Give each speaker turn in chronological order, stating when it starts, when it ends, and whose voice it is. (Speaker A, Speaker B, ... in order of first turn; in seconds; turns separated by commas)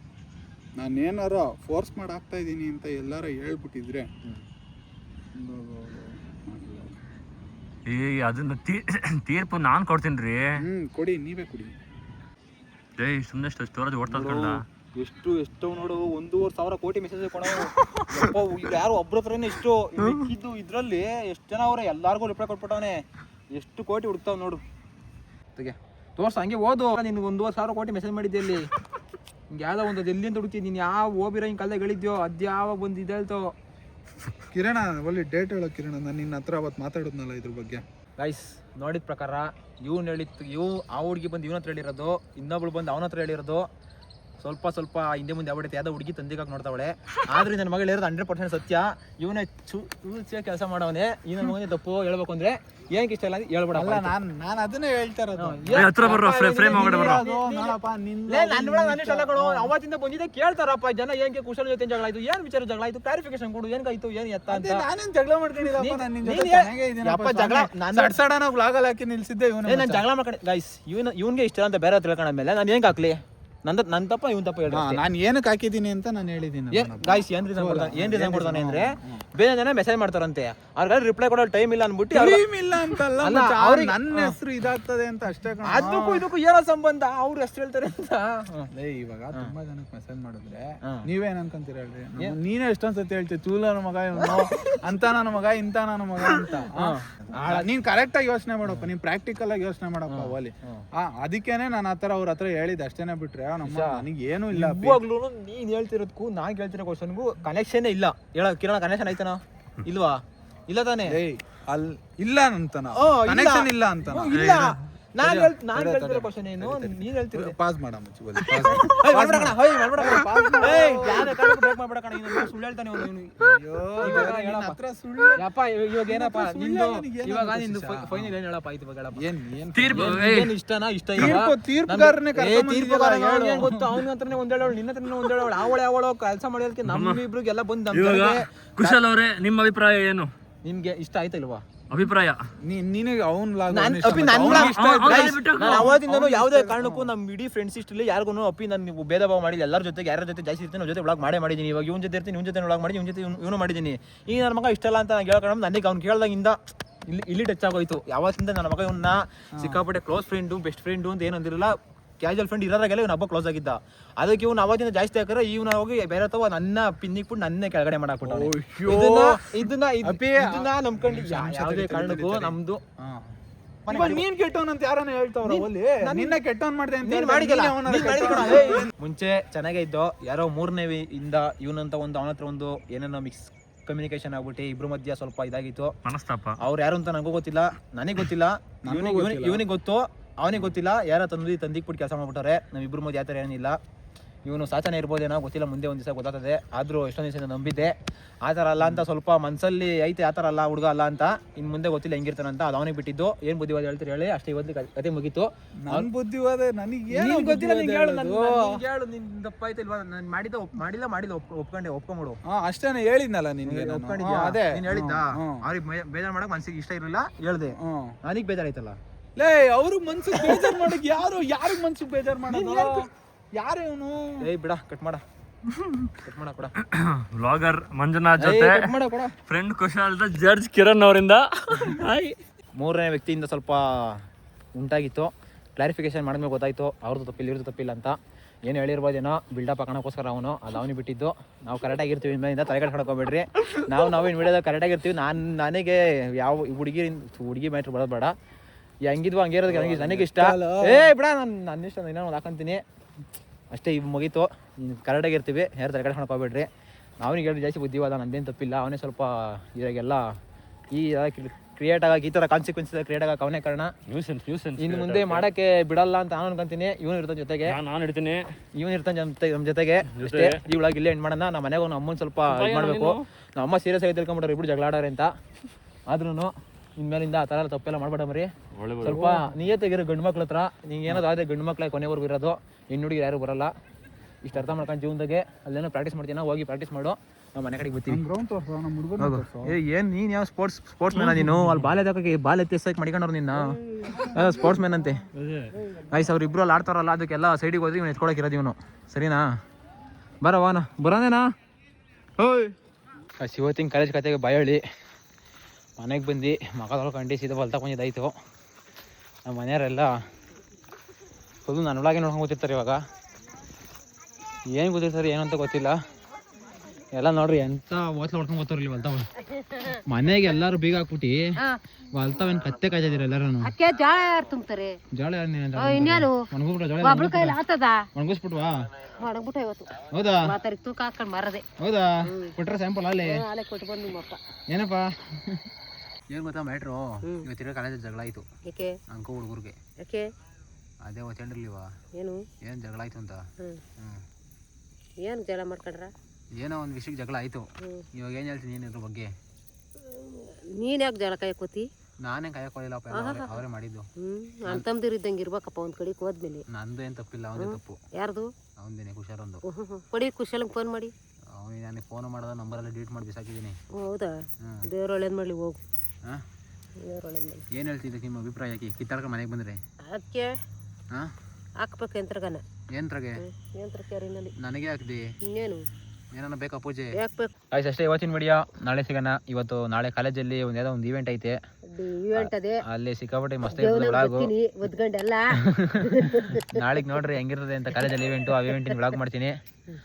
Speaker A: 0.8-4.1, Speaker A: 5.3-6.9, Speaker B: 7.8-10.6, Speaker A: 10.6-11.7, Speaker B: 13.0-14.6, Speaker C: 14.1-24.6, Speaker C: 25.6-28.7, Speaker C: 29.5-33.5, Speaker A: 34.5-37.8, Speaker C: 38.2-43.7, Speaker C: 44.4-54.1, Speaker A: 53.7-55.9, Speaker C: 55.4-57.7, Speaker B: 55.7-57.2, Speaker A: 56.7-59.7, Speaker C: 58.3-64.8, Speaker A: 64.5-70.0, Speaker C: 65.8-68.2, Speaker C: 69.7-75.0, Speaker A: 74.7-79.2, Speaker C: 76.7-82.4, Speaker A: 82.1-86.2, Speaker C: 83.2-84.4, Speaker C: 85.6-88.7, Speaker A: 88.7-105.0, Speaker C: 94.2-94.8, Speaker C: 96.2-97.7, Speaker C: 100.1-100.8, Speaker C: 103.6-111.2, Speaker A: 111.1-114.4, Speaker C: 112.9-117.5, Speaker B: 114.3-114.7, Speaker A: 115.2-121.4, Speaker C: 118.4-123.3, Speaker A: 123.4-125.4, Speaker C: 124.0-124.8, Speaker C: 125.3-129.2, Speaker A: 126.0-128.3, Speaker A: 129.1-130.2, Speaker B: 129.7-130.5, Speaker C: 129.9-139.0, Speaker A: 131.2-134.0, Speaker B: 136.8-137.2, Speaker B: 137.9-140.3, Speaker C: 140.6-141.6, Speaker B: 141.9-142.4, Speaker A: 142.6-147.1, Speaker C: 143.7-172.8, Speaker B: 144.4-145.9, Speaker A: 159.6-159.8, Speaker A: 168.2-173.3, Speaker C: 173.8-174.2, Speaker A: 173.9-178.9, Speaker C: 175.4-176.3, Speaker C: 177.0-185.9, Speaker B: 186.0-186.6, Speaker C: 186.6-193.8, Speaker A: 188.8-189.6, Speaker C: 194.4-197.9, Speaker C: 198.4-206.1, Speaker A: 198.8-199.1, Speaker A: 205.8-208.8, Speaker C: 207.1-212.4, Speaker A: 212.5-215.6, Speaker C: 213.6-219.0, Speaker A: 217.8-218.2, Speaker A: 219.4-224.4, Speaker C: 220.3-220.9, Speaker C: 222.5-223.0, Speaker C: 224.4-225.2, Speaker B: 225.7-226.1, Speaker C: 226.2-226.7, Speaker B: 226.9-228.9, Speaker C: 228.4-229.3, Speaker B: 229.4-232.4, Speaker C: 232.8-234.2, Speaker C: 234.8-238.2, Speaker C: 238.7-248.3, Speaker C: 249.1-252.8, Speaker A: 249.7-251.1, Speaker C: 253.7-256.7, Speaker C: 257.2-260.3, Speaker C: 260.9-263.9, Speaker B: 264.1-265.5, Speaker C: 264.8-267.8, Speaker B: 267.6-268.4, Speaker C: 268.8-275.3, Speaker B: 270.2-270.6, Speaker B: 272.5-273.2, Speaker C: 276.1-278.5, Speaker B: 278.7-279.4, Speaker C: 279.0-283.7, Speaker C: 284.4-288.2, Speaker A: 288.1-289.8, Speaker C: 289.2-295.2, Speaker B: 291.2-291.8, Speaker B: 295.4-295.8, Speaker C: 296.0-299.5, Speaker C: 300.4-301.4, Speaker C: 302.4-302.7, Speaker C: 303.4-304.8, Speaker C: 306.0-308.3, Speaker C: 309.4-310.1, Speaker C: 311.6-313.0, Speaker C: 314.7-316.0, Speaker C: 317.1-319.3, Speaker D: 319.5-320.0, Speaker C: 319.9-321.5, Speaker C: 322.1-323.7, Speaker D: 323.6-325.0, Speaker C: 325.1-327.6, Speaker D: 325.8-326.3, Speaker D: 327.0-328.1, Speaker C: 328.1-328.8, Speaker D: 329.2-331.6, Speaker C: 330.0-330.5, Speaker C: 331.8-333.4, Speaker D: 332.3-332.5, Speaker D: 333.2-334.4, Speaker C: 334.7-335.6, Speaker C: 336.3-338.4, Speaker D: 338.6-338.9, Speaker C: 339.1-339.8, Speaker D: 340.0-340.3, Speaker C: 341.0-341.9, Speaker D: 342.1-342.4, Speaker C: 342.6-343.4, Speaker C: 344.0-344.2, Speaker D: 345.2-346.1, Speaker C: 346.6-349.3, Speaker D: 350.0-351.9, Speaker C: 352.2-354.1, Speaker D: 353.1-353.6, Speaker D: 354.2-356.6, Speaker C: 356.7-358.0, Speaker D: 357.6-358.5, Speaker C: 358.8-359.6, Speaker D: 359.6-361.1, Speaker C: 361.5-363.8, Speaker D: 363.9-365.8, Speaker D: 367.0-367.6, Speaker C: 367.7-369.8, Speaker D: 370.1-370.6, Speaker D: 371.8-372.6, Speaker C: 372.9-373.4, Speaker D: 373.4-374.5, Speaker C: 374.6-375.2, Speaker D: 375.5-375.8, Speaker C: 376.3-377.2, Speaker D: 377.2-377.5, Speaker C: 377.7-381.6, Speaker D: 381.9-382.8, Speaker C: 382.3-384.5, Speaker D: 383.7-386.8, Speaker C: 385.6-389.5